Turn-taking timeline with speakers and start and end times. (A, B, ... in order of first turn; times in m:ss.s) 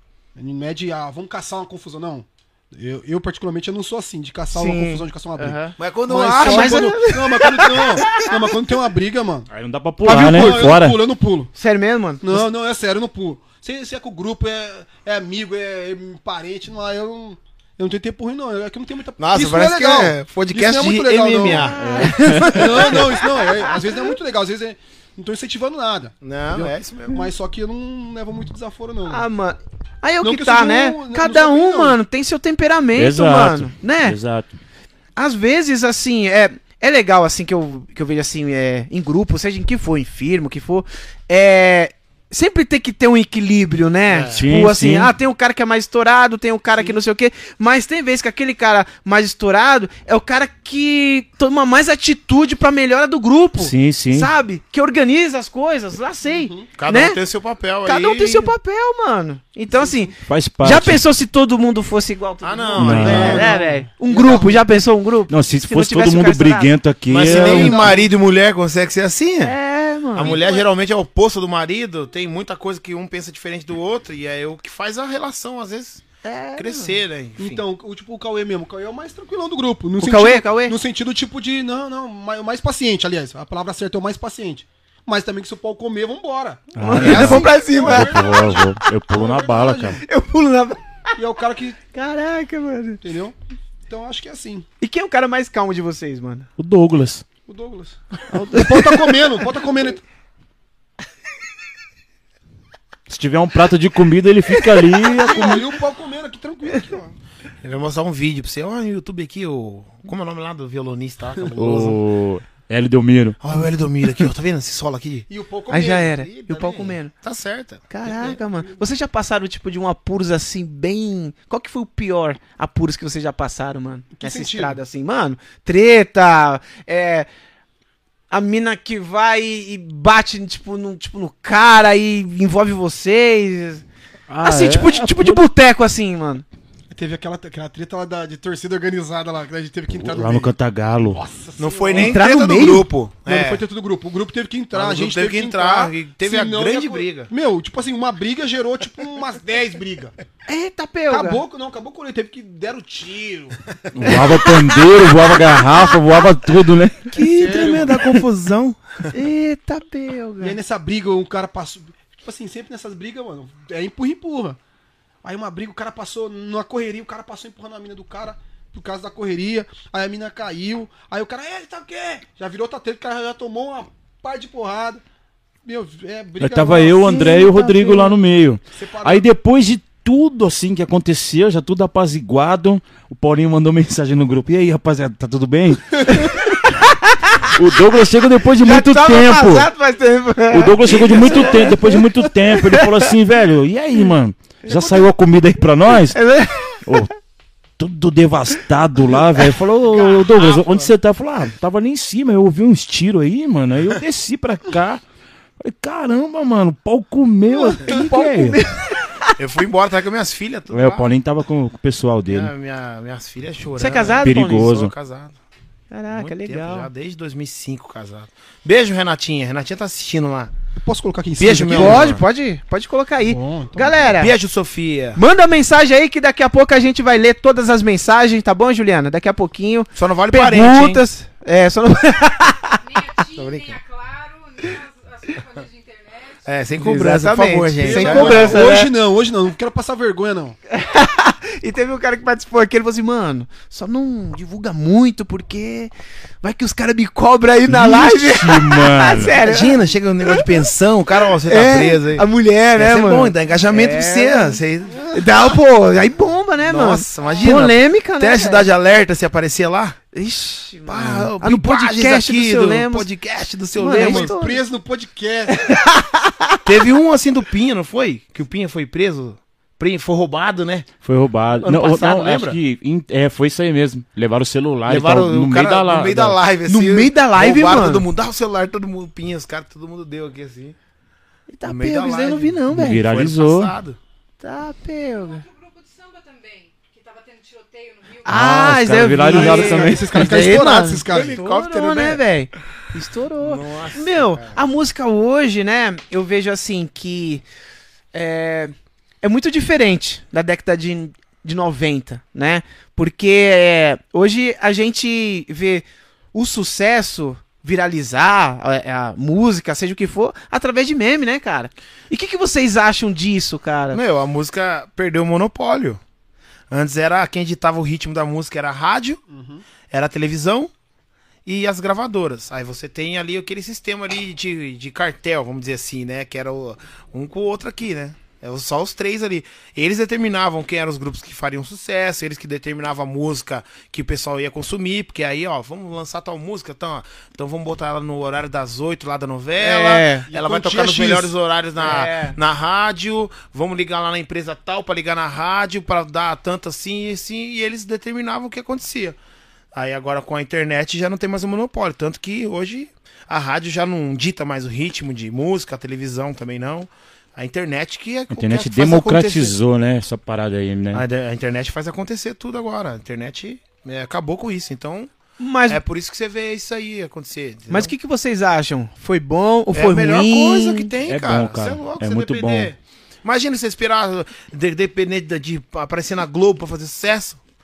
0:00.4-0:09.5 A
0:04.5-0:05.8 B
0:05.8-0:07.0 C
0:06.3-0:08.4 B
0:09.5-0:11.0 D
0:10.0-0:11.5 A
0:11.5-0:12.5 B
0:12.2-0:21.7 A
0:19.2-0:23.1 C
0:21.4-0:23.7 B
0:21.8-0:22.6 D
0:22.5-0:29.2 A
0:26.2-0:27.3 C
0:29.1-0:34.2 B
0:30.2-0:32.0 A
0:32.9-0:34.5 D
0:35.2-0:57.2 B
0:44.1-0:44.4 C
0:44.3-0:45.1 D
0:53.6-0:54.3 D
0:56.3-0:56.7 A
0:56.8-0:58.5 C
0:57.8-1:06.7 B
1:00.2-1:01.0 D
1:02.4-1:03.6 C
1:02.8-1:03.4 D
1:02.9-1:04.6 A
1:05.3-1:07.9 D
1:07.1-1:09.5 C
1:07.3-1:08.0 B
1:07.6-1:08.0 A
1:09.4-1:10.4 B
1:10.1-1:16.0 C
1:10.2-1:10.6 A
1:16.2-1:17.0 B
1:16.6-1:17.6 C
1:17.4-1:30.0 A
1:20.0-1:20.8 B
1:26.7-1:30.0 D
1:26.8-1:28.6 B
1:30.0-1:30.8 B
1:31.2-1:31.8 A
1:31.9-1:33.0 B
1:33.0-1:33.3 A
1:33.9-1:34.7 A
1:34.8-1:36.5 B
1:36.6-1:37.2 D
1:37.5-1:40.0 A
1:38.5-1:39.1 B
1:43.1-1:45.6 D
1:45.0-1:47.2 A
1:47.6-1:52.0 C
1:51.6-1:53.4 D
1:53.4-1:55.3 C
1:55.3-1:56.3 A
1:55.7-1:57.1 B
1:55.9-1:57.8 C
1:57.9-2:07.3 B
1:58.0-1:58.8 A
2:04.2-2:04.8 A
2:08.3-2:13.8 B
2:14.3-2:15.4 D
2:14.4-2:16.4 B
2:16.9-2:20.5 A
2:19.9-2:21.2 D
2:21.0-2:22.2 A
2:21.6-2:23.6 C
2:21.9-2:22.9 B
2:23.2-2:30.1 A
2:24.7-2:27.3 C
2:30.5-2:31.4 B
2:31.1-2:33.7 A
2:33.9-2:37.1 D
2:34.0-2:34.8 B
2:37.1-2:39.1 C
2:37.1-2:38.0 A
2:39.1-2:40.6 B
2:40.4-2:44.6 A
2:45.2-2:55.0 A
2:55.6-2:57.3 A
2:56.4-3:06.5 D
2:57.0-2:58.2 B
2:58.7-2:59.2 A
3:06.1-3:07.5 B
3:07.5-3:09.7 D
3:08.6-3:13.1 B
3:10.5-3:16.2 D
3:14.6-3:15.0 B
3:16.1-3:17.0 B
3:16.7-3:17.1 D
3:17.8-3:25.0 D
3:20.3-3:20.9 C
3:25.6-3:28.6 D
3:27.5-3:29.3 B
3:29.4-3:31.1 C
3:30.7-3:32.5 D
3:32.3-3:35.4 C
3:33.8-3:34.7 B
3:34.2-3:34.9 D
3:35.9-3:36.9 B
3:36.1-3:40.5 C
3:40.8-3:42.1 A
3:41.4-3:42.2 C
3:41.7-3:44.3 B
3:43.3-3:44.1 A
3:44.1-3:45.2 C
3:45.1-3:53.2 B
3:49.9-3:51.0 C
3:53.3-3:53.8 C
3:53.9-3:56.2 E
3:56.4-3:58.8 C
3:56.8-3:58.9 B
3:57.8-4:00.6 A
4:00.7-4:10.6 B
4:07.7-4:09.4 D
4:09.4-4:15.2 C
4:11.4-4:18.7 B
4:16.6-4:20.0 C
4:20.1-4:23.1 B
4:20.8-4:24.3 C
4:23.8-4:24.6 B
4:23.9-4:25.8 A
4:25.5-4:26.6 B
4:26.6-4:30.9 C
4:31.0-4:36.4 D
4:31.6-4:32.6 C
4:34.8-4:40.8 C
4:36.6-4:38.0 B
4:41.5-4:43.0 B
4:41.6-4:44.0 C
4:42.7-4:43.7 D
4:44.4-4:45.4 B
4:45.9-4:48.1 E
4:48.2-4:57.4 B
4:48.2-4:50.4 D
4:49.2-4:51.4 A
4:51.0-4:52.2 C
4:53.4-4:54.6 C
4:58.1-5:14.0 B
5:13.9-5:16.0 C
5:16.7-5:19.2 C
5:19.3-5:19.6 A
5:19.9-5:20.7 C
5:21.4-5:49.2 C
5:39.6-5:40.3 B
5:40.3-5:41.3 A
5:41.8-5:42.4 B
5:49.7-5:59.6 C
5:58.3-6:01.0 D
6:00.9-6:05.1 C
6:05.4-6:05.8 B
6:05.7-6:07.9 C
6:07.7-6:10.9 B
6:09.7-6:17.4 C
6:11.0-6:12.7 D